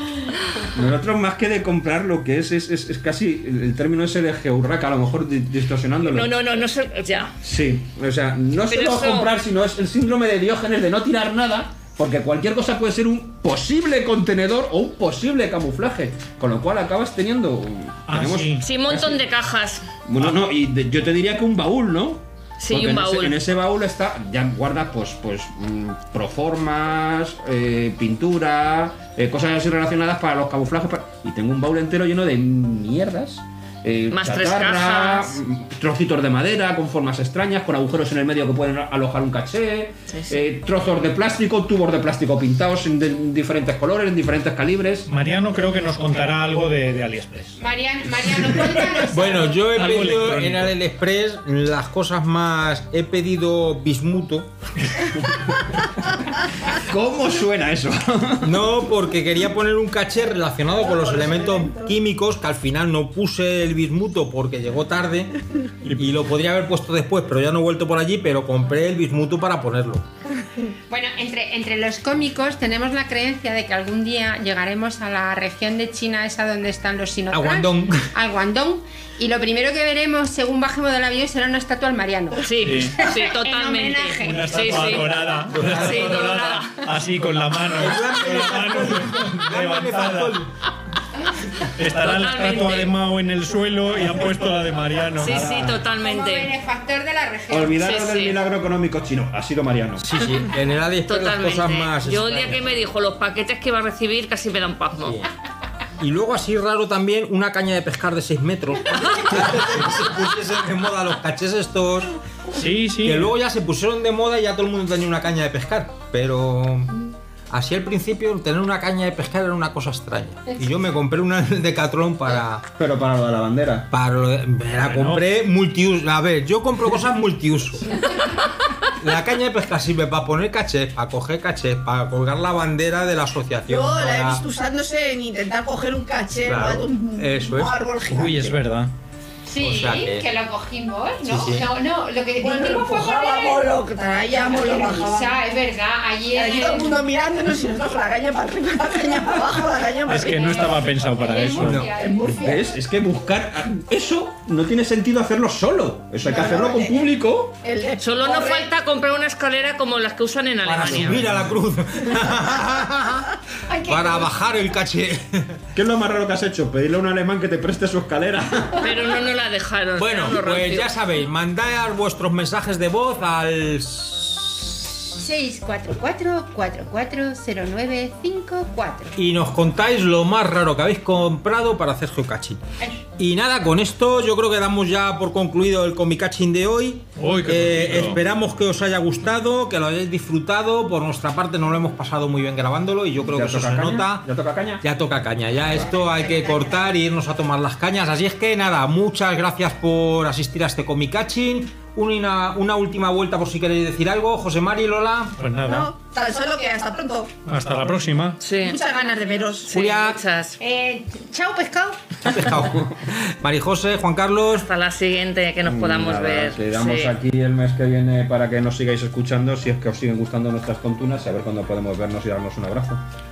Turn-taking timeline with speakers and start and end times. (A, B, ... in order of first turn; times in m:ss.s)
0:00.7-0:06.3 A
0:06.0-0:07.3 B
0:07.4-0:19.2 A
0:08.7-0:09.3 B
0:18.1-0:18.6 C
0:18.6-0:19.9 B
0:20.0-0:45.1 A
0:22.6-0:23.4 B
0:34.1-0:35.4 B
0:45.1-0:47.6 C
0:47.6-0:49.6 D
0:48.5-0:49.0 C
0:49.1-0:54.5 E
0:49.6-0:50.7 C
0:54.8-0:55.2 C
0:56.7-0:58.6 A
0:58.4-1:05.3 E
1:00.8-1:01.9 F
1:05.8-1:06.1 C
1:05.9-1:10.0 E
1:10.9-1:25.2 D
1:17.3-1:18.1 E
1:22.4-1:25.1 B
1:22.6-1:23.0 C
1:24.2-1:30.4 C
1:25.5-1:26.4 E
1:25.7-1:26.8 B
1:27.7-1:30.5 E
1:31.6-1:35.6 C
1:31.9-1:32.9 B
1:35.2-1:36.5 B
1:35.2-1:35.8 A
1:36.0-1:38.2 D
1:37.5-1:40.2 A
1:37.8-1:38.4 B
1:40.0-1:42.6 E
1:41.0-1:45.2 B
1:45.0-1:45.3 E
1:46.0-1:52.1 E
1:52.5-1:53.3 C
1:53.0-2:02.6 E
2:02.8-2:03.9 A
2:03.9-2:08.0 E
2:04.8-2:05.2 C
2:08.9-2:14.4 E
2:13.7-2:18.5 F
2:16.4-2:17.8 E
2:18.1-2:18.9 C
2:19.4-2:23.7 D
2:19.6-2:20.3 E
2:21.2-2:21.7 E
2:22.4-2:25.3 F
2:24.4-2:27.0 D
2:26.3-2:30.7 F
2:30.0-2:31.8 C
2:30.1-2:32.7 D
2:31.6-2:31.8 E
2:32.0-2:32.6 F
2:32.3-2:37.6 A
2:36.2-2:37.0 F
2:37.6-2:38.7 F
2:38.0-2:41.3 B
2:40.6-2:45.6 E
2:40.8-2:41.1 A
2:43.7-2:44.3 D
2:45.7-2:48.9 A
2:48.8-2:50.9 B
2:50.0-2:55.0 E
2:55.2-2:59.2 D
2:59.2-3:02.6 E
3:03.2-3:14.3 E
3:07.2-3:08.2 C
3:13.3-3:14.8 A
3:14.8-3:25.4 E
3:25.4-3:25.9 C
3:25.6-3:27.3 F
3:27.5-3:28.4 C
3:28.4-3:28.8 B
3:28.6-3:29.7 F
3:29.7-3:30.6 B
3:29.7-3:30.2 E
3:30.6-3:32.0 D
3:32.2-3:34.7 E
3:32.3-3:33.0 A
3:34.5-3:37.1 B
3:35.6-3:43.0 A